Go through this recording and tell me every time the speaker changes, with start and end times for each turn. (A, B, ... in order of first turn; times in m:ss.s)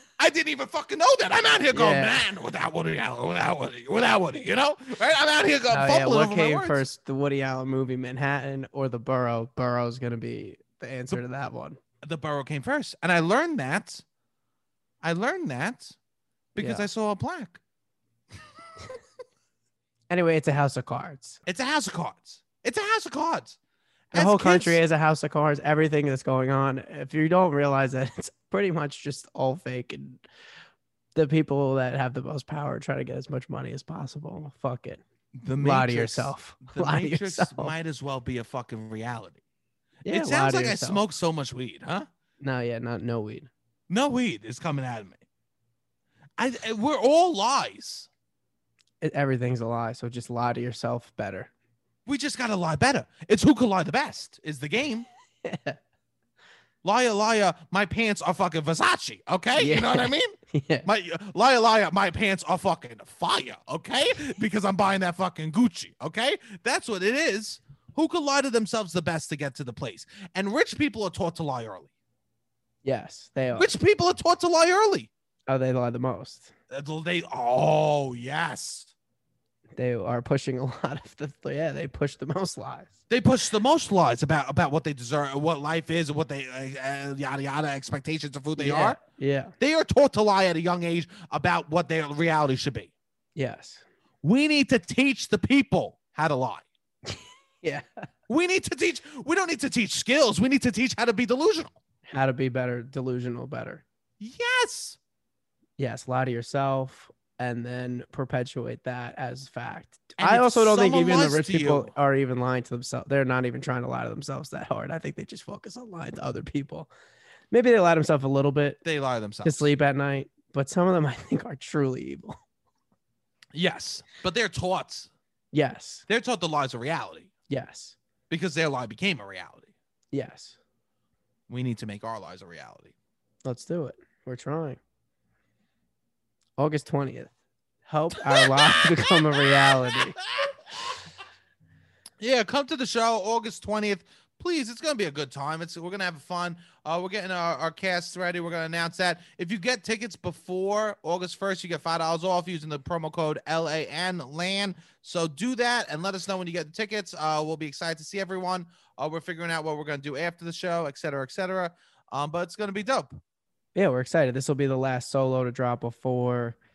0:00.2-0:06.8 A
0:01.7-0:02.2 B
0:05.7-0:11.8 B
0:12.0-0:14.0 A
0:15.0-0:16.0 A
0:16.5-0:17.6 A
0:16.6-0:16.8 B
0:20.1-0:21.4 B
0:21.4-0:23.6 A
0:24.1-0:24.8 A
0:24.1-0:30.2 B
0:31.1-0:35.0 B
0:35.3-0:39.4 A
0:35.6-0:37.7 B
0:40.0-0:41.0 B
0:40.0-0:42.1 A
0:42.4-0:43.5 B
0:43.9-0:45.2 A
0:46.4-0:48.1 A
0:49.0-0:51.5 B
0:52.0-0:55.1 A
0:55.4-0:55.8 B
0:56.8-1:11.9 A
0:59.6-1:00.8 B
1:12.8-1:13.7 B
1:13.5-1:15.1 A
1:15.5-1:16.5 B
1:16.7-1:18.9 A
1:19.8-1:22.9 B
1:23.1-1:29.0 A
1:28.6-1:29.5 B
1:29.6-1:32.9 A
1:33.4-1:33.8 B
1:34.2-1:36.6 A
1:37.1-1:38.0 B
1:38.3-1:41.7 A
1:42.1-1:43.8 B
1:44.2-1:45.0 A
1:45.8-1:56.9 B
1:50.2-1:51.9 A
1:57.5-1:58.8 B
1:58.8-1:59.7 A
1:59.4-2:02.4 B
2:03.5-2:05.1 A
2:05.5-2:06.0 B
2:06.1-2:07.3 A
2:07.5-2:08.0 B
2:08.3-2:09.7 A
2:10.1-2:10.6 B
2:11.5-2:12.9 A
2:13.4-2:14.8 B
2:16.6-2:17.3 B
2:17.8-2:20.2 B
2:18.3-2:20.5 A
2:22.2-2:43.2 A
2:43.7-2:46.6 B